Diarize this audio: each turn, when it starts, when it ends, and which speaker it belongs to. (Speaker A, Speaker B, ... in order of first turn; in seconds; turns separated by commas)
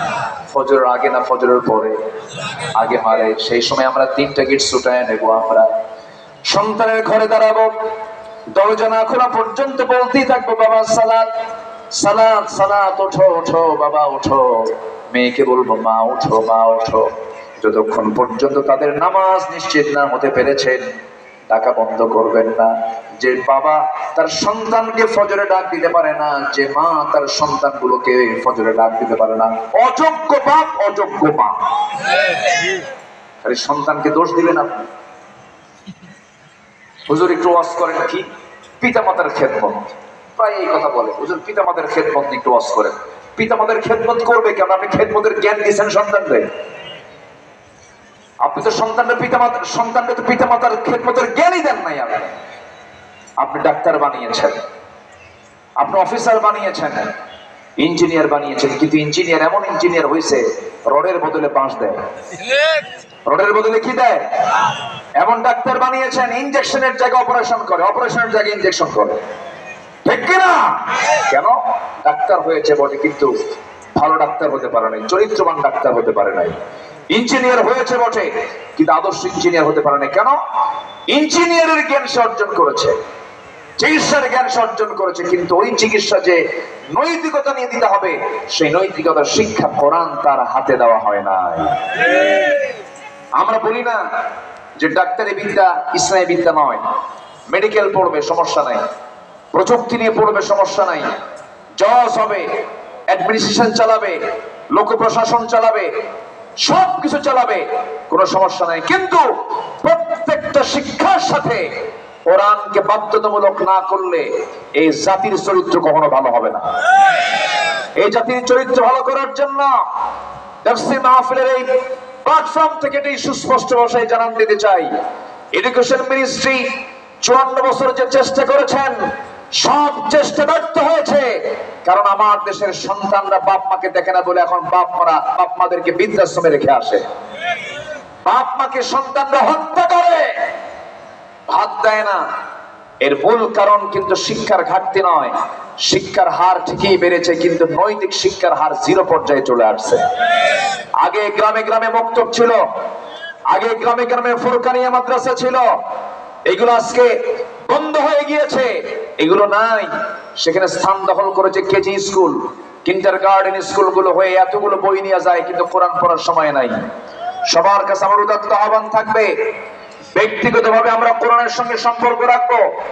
Speaker A: 0.5-1.9, Speaker A: 2.8-5.7, Speaker A: 6.5-7.7, Speaker A: 8.5-11.3, Speaker A: 11.9-20.9, Speaker A: 21.5-31.6, Speaker A: 33.4-34.9, Speaker A: 37.1-38.3, Speaker A: 38.8-46.5, Speaker A: 48.4-52.4, Speaker A: 53.4-54.6, Speaker A: 55.8-57.1, Speaker A: 57.8-62.0, Speaker A: 63.3-64.2, Speaker A: 65.2-69.2, Speaker A: 70.0-73.3, Speaker A: 74.0-76.6, Speaker A: 77.1-80.4, Speaker A: 81.1-83.0, Speaker A: 83.8-91.8, Speaker A: 93.4-94.0, Speaker A: 94.8-96.8, Speaker A: 97.5-98.8, Speaker A: 99.5-101.1, Speaker A: 101.8-102.5, Speaker A: 103.1-104.2, Speaker A: 104.7-105.9, Speaker A: 106.6-109.3, Speaker A: 109.8-111.7, Speaker A: 112.3-116.7, Speaker A: 118.0-119.8, Speaker A: 120.7-121.7, Speaker A: 122.2-124.9, Speaker A: 125.5-129.0, Speaker A: 129.6-137.1, Speaker A: 138.2-140.4, Speaker A: 141.5-142.2, Speaker A: 143.0-150.0, Speaker A: 151.0-152.6, Speaker A: 153.5-155.7, Speaker A: 156.5-157.2, Speaker A: 157.7-166.9, Speaker A: 167.5-169.3, Speaker A: 170.1-172.7